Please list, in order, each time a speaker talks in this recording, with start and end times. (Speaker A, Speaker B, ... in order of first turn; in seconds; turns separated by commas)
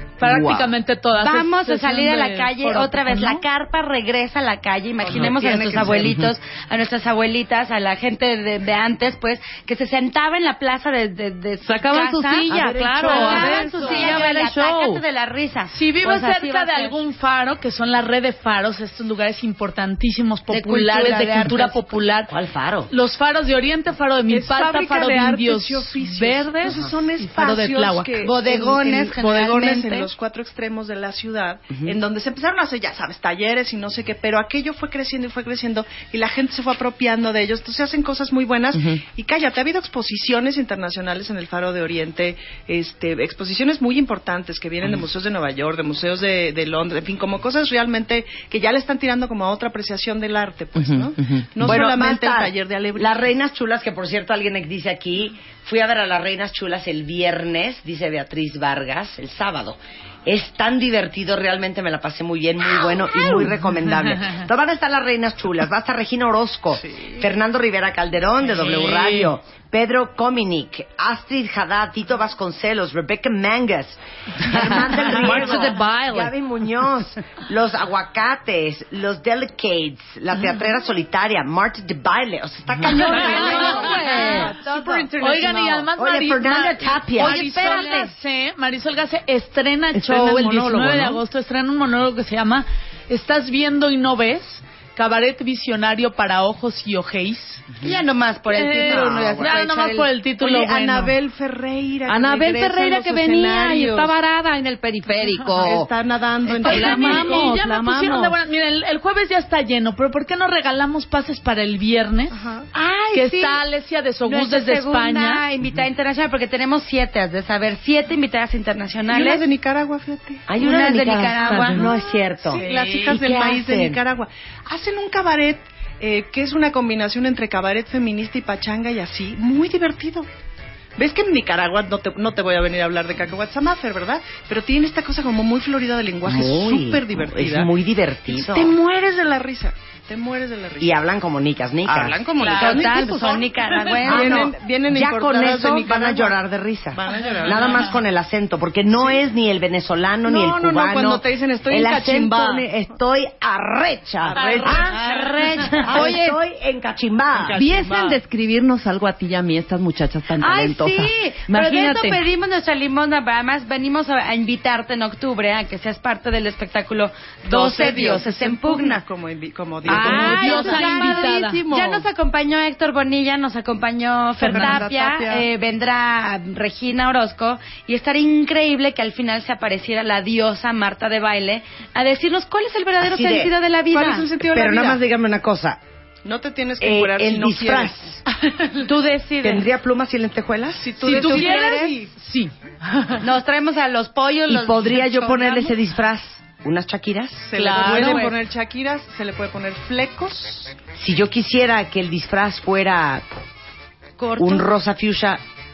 Speaker A: 0.2-3.4, Speaker B: 0.2-0.7, Speaker C: 1.2-17.1, Speaker D: 5.0-6.1, Speaker B: 11.7-15.0, Speaker E: 12.5-13.6, Speaker A: 13.4-14.2, Speaker A: 15.7-22.3, Speaker C: 20.5-21.9, Speaker E: 22.3-22.9, Speaker A: 22.9-28.1, Speaker D: 24.3-53.3, Speaker E: 26.6-26.9, Speaker C: 28.2-30.1, Speaker B: 51.0-51.5, Speaker E: 51.6-85.1, Speaker A: 68.6-69.3, Speaker B: 75.0-76.3, Speaker C: 82.8-85.5, Speaker B: 83.2-84.5, Speaker A: 85.2-97.7, Speaker E: 85.9-87.4, Speaker C: 87.2-88.2, Speaker B: 89.9-91.2, Speaker C: 97.8-100.1, Speaker A: 98.5-101.2, Speaker D: 98.9-99.2, Speaker D: 100.4-104.2, Speaker B: 102.1-105.9, Speaker D: 105.6-107.6, Speaker B: 106.6-108.3, Speaker A: 106.6-112.4, Speaker D: 112.3-112.7, Speaker C: 112.7-113.6, Speaker A: 113.1-115.5, Speaker C: 114.2-119.5, Speaker D: 119.1-120.5, Speaker E: 120.5-124.0, Speaker C: 120.6-121.9, Speaker D: 121.5-130.3, Speaker A: 122.5-123.2, Speaker D: 131.0-137.7, Speaker E: 136.2-138.8, Speaker D: 138.3-141.0, Speaker E: 140.8-142.2, Speaker D: 141.8-146.4, Speaker C: 142.5-144.5, Speaker E: 144.0-157.7, Speaker D: 146.9-148.0, Speaker D: 148.9-149.2, Speaker D: 150.2-152.9, Speaker D: 154.2-155.0, Speaker B: 155.9-156.4, Speaker D: 157.4-158.2, Speaker B: 157.5-162.2, Speaker C: 160.4-169.0, Speaker D: 167.5-171.3, Speaker C: 169.9-184.3, Speaker A: 169.9-171.7, Speaker B: 169.9-172.0, Speaker D: 174.4-175.5, Speaker E: 183.0-183.5, Speaker D: 183.9-185.0, Speaker E: 184.4-185.8, Speaker D: 186.2-188.0, Speaker E: 186.8-188.2, Speaker C: 188.8-189.6, Speaker E: 189.4-191.5, Speaker D: 190.8-192.1, Speaker A: 191.1-193.2, Speaker C: 191.1-192.0, Speaker C: 193.2-195.7, Speaker E: 194.5-197.6, Speaker D: 197.5-200.8, Speaker A: 197.6-198.4, Speaker E: 201.0-203.3, Speaker C: 204.2-204.7, Speaker E: 204.4-205.4